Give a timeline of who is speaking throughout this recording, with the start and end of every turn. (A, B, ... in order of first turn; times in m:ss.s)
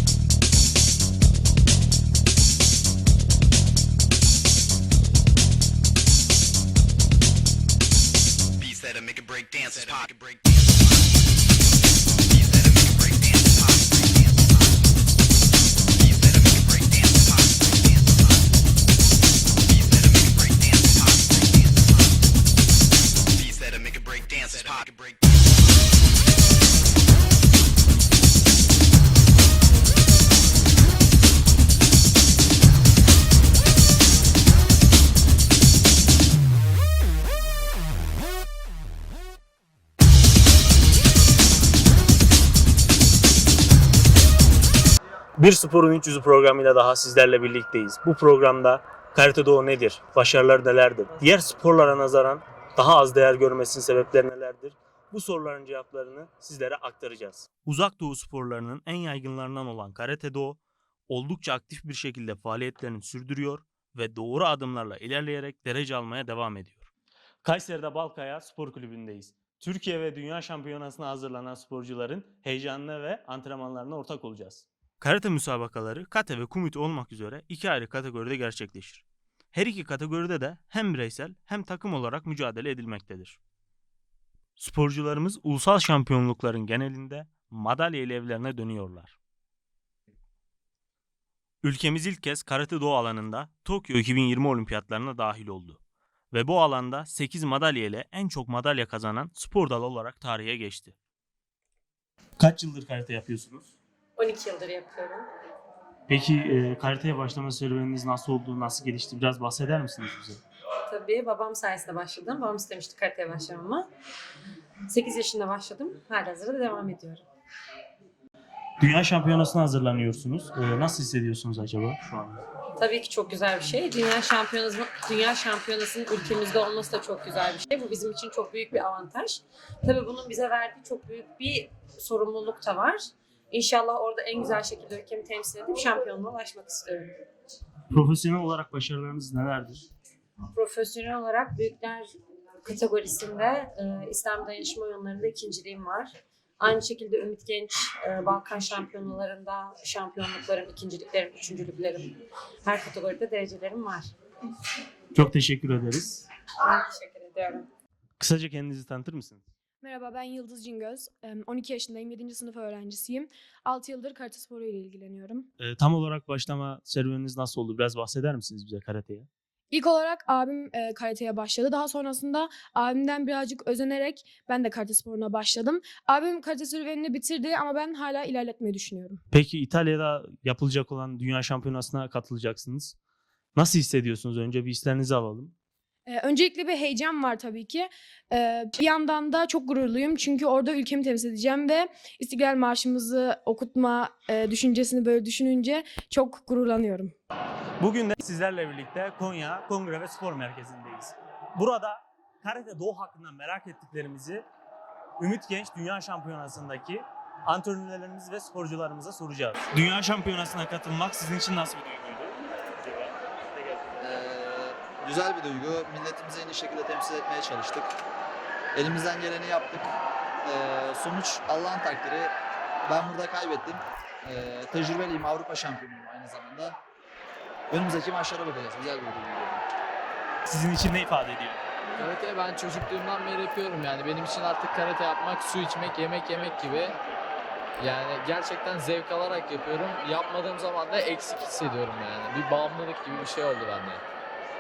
0:08.6-0:11.0 A
0:12.3-0:14.7 A
0:16.0-0:18.4 A
0:19.7-0:22.0 A
0:23.3-0:25.4 A
0:45.4-1:06.9 B
1:07.4-1:23.4 B
1:24.6-1:29.2 B
1:31.6-1:35.8 B
1:36.3-1:41.0 B
1:42.4-1:43.8 B
1:44.2-1:45.3 C
1:46.1-1:50.4 B
1:50.9-1:53.9 C
1:54.9-1:57.2 C
1:58.8-2:02.4 B
2:02.8-2:17.1 C
2:17.9-2:19.9 B
2:20.5-2:34.1 C
2:35.1-2:36.2 B
2:36.6-2:37.7 C
2:38.2-2:39.5 B
2:39.8-2:45.5 D
2:45.6-2:49.3 B
2:49.7-2:59.2 D
2:59.3-3:03.0 B
3:03.6-3:05.6 B
3:06.1-3:17.1 D
3:17.8-3:24.5 B
3:25.2-3:34.3 B
3:34.0-3:37.9 E
3:38.7-3:42.3 E
3:42.8-3:46.8 E
3:47.7-3:49.7 E
3:50.5-3:51.6 B
3:52.0-3:57.0 F
3:57.8-4:04.0 F